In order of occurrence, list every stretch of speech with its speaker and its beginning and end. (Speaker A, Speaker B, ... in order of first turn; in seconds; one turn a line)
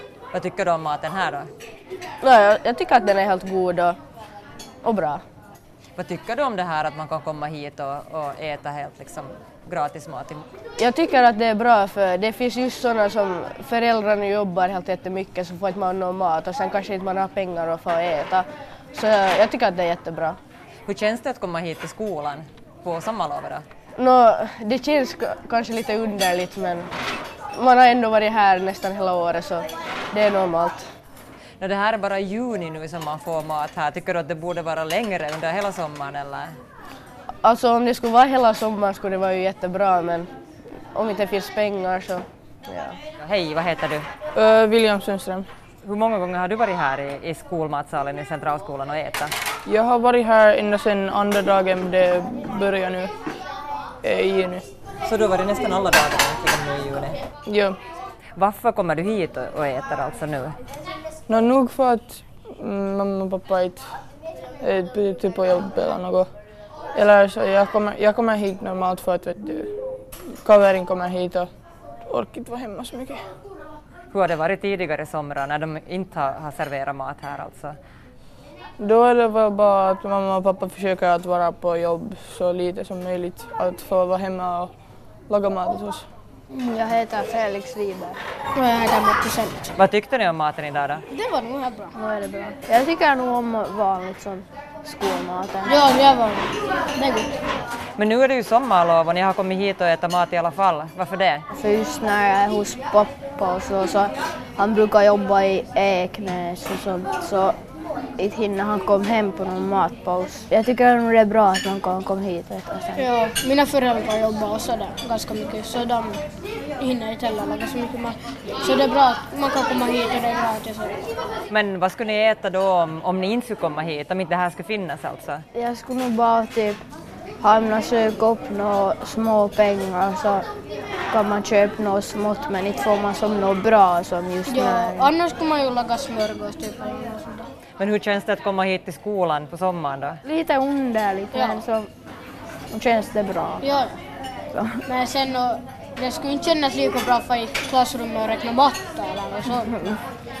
Speaker A: 0.3-1.5
Speaker B: 2.2-4.0
Speaker B: 4.8-5.2
Speaker A: 6.0-10.4
Speaker B: 10.8-20.4
Speaker A: 20.9-23.6
Speaker B: 23.9-26.9
Speaker B: 27.6-30.8
Speaker A: 31.6-36.5
Speaker B: 37.4-40.3
Speaker B: 40.9-43.0
Speaker A: 43.2-44.1
Speaker C: 44.3-45.5
Speaker A: 45.8-49.3
Speaker C: 49.6-53.1
Speaker C: 54.0-54.6
Speaker A: 55.0-57.2
Speaker C: 57.5-57.8
Speaker A: 58.4-60.5
Speaker C: 61.3-63.8
Speaker C: 64.6-66.3
Speaker C: 66.9-69.7
Speaker C: 70.4-71.5
Speaker C: 72.1-73.2
Speaker A: 74.1-77.8
Speaker C: 78.8-84.7
Speaker C: 85.3-86.0
Speaker D: 86.5-88.2
Speaker E: 88.5-89.8
Speaker A: 89.8-91.0
Speaker E: 91.1-91.9
Speaker D: 91.9-95.8
Speaker E: 95.7-97.3
Speaker A: 98.0-101.4
Speaker D: 101.5-107.5
Speaker D: 108.2-113.1
Speaker E: 113.0-116.2
Speaker E: 116.8-121.0
Speaker A: 121.5-125.4
Speaker D: 125.5-126.8
Speaker D: 127.4-130.4
Speaker D: 131.1-135.1
Speaker E: 134.5-137.5
Speaker A: 137.8-140.2
Speaker D: 140.2-141.9
Speaker E: 141.3-141.6
Speaker D: 142.7-143.7
Speaker E: 143.6-144.0
Speaker D: 144.5-144.8
Speaker E: 144.9-149.7
Speaker D: 149.5-150.0